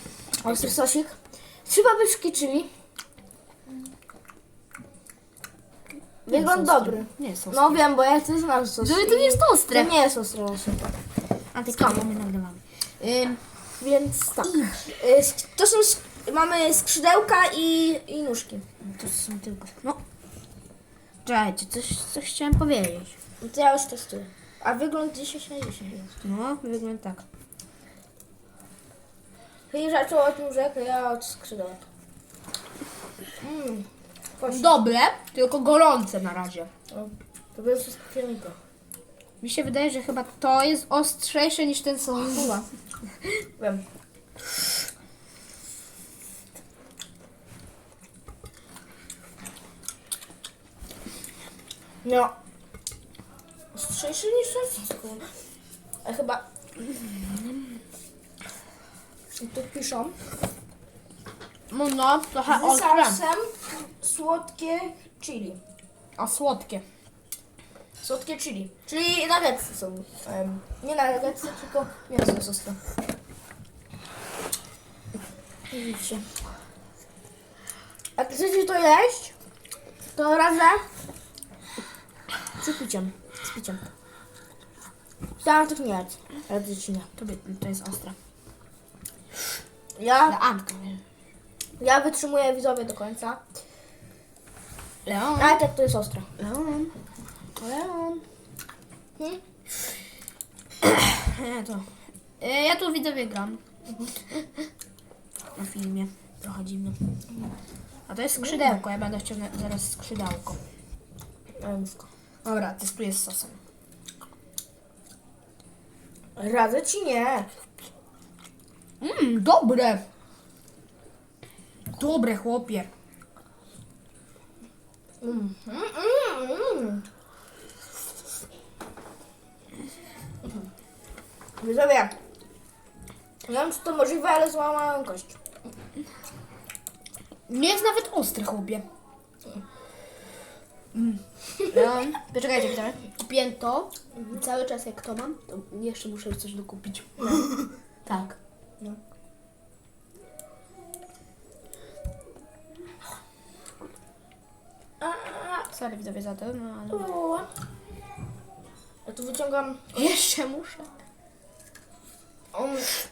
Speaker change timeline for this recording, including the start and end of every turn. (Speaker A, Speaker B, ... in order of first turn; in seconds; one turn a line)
Speaker A: 0.4-2.7
Speaker A: 6.3-10.9
Speaker B: 6.3-7.8
Speaker B: 8.8-9.9
Speaker B: 11.5-13.4
Speaker A: 13.8-18.6
Speaker B: 14.4-14.8
Speaker B: 18.8-20.0
Speaker B: 21.2-23.2
Speaker A: 23.4-26.1
Speaker B: 26.2-27.2
Speaker A: 29.7-31.8
Speaker A: 33.4-33.9
Speaker A: 34.4-34.7
Speaker B: 34.5-36.7
Speaker A: 36.9-38.6
Speaker B: 39.4-42.7
Speaker A: 43.6-43.8
Speaker A: 52.0-52.3
Speaker A: 53.7-55.3
Speaker A: 56.0-56.4
Speaker A: 59.4-60.2
Speaker B: 61.7-63.2
Speaker A: 62.5-65.6
Speaker B: 66.2-66.8
Speaker A: 68.0-72.8
Speaker A: 75.7-76.2
Speaker A: 78.2-79.3
Speaker A: 80.2-80.8
Speaker A: 82.6-83.8
Speaker A: 85.4-87.1
Speaker B: 87.2-88.2
Speaker A: 90.0-90.3
Speaker B: 90.3-91.0
Speaker A: 91.8-93.4
Speaker B: 95.1-95.6
Speaker A: 95.4-96.3
Speaker B: 96.4-96.9
Speaker B: 97.6-98.2
Speaker B: 100.8-101.8
Speaker B: 102.4-103.6
Speaker B: 104.3-104.6
Speaker B: 105.5-107.0
Speaker B: 108.1-110.6
Speaker A: 108.4-108.8
Speaker A: 111.6-112.1
Speaker B: 112.4-113.6
Speaker A: 116.3-117.5
Speaker B: 119.0-120.0
Speaker B: 121.9-122.9
Speaker A: 125.2-127.0
Speaker A: 131.6-132.1
Speaker A: 133.4-135.4
Speaker B: 137.5-138.8
Speaker B: 140.9-148.4
Speaker A: 147.2-147.4
Speaker A: 155.0-155.7
Speaker B: 155.7-157.1
Speaker A: 156.9-157.5
Speaker A: 159.1-160.1
Speaker B: 159.9-160.9
Speaker A: 162.5-163.0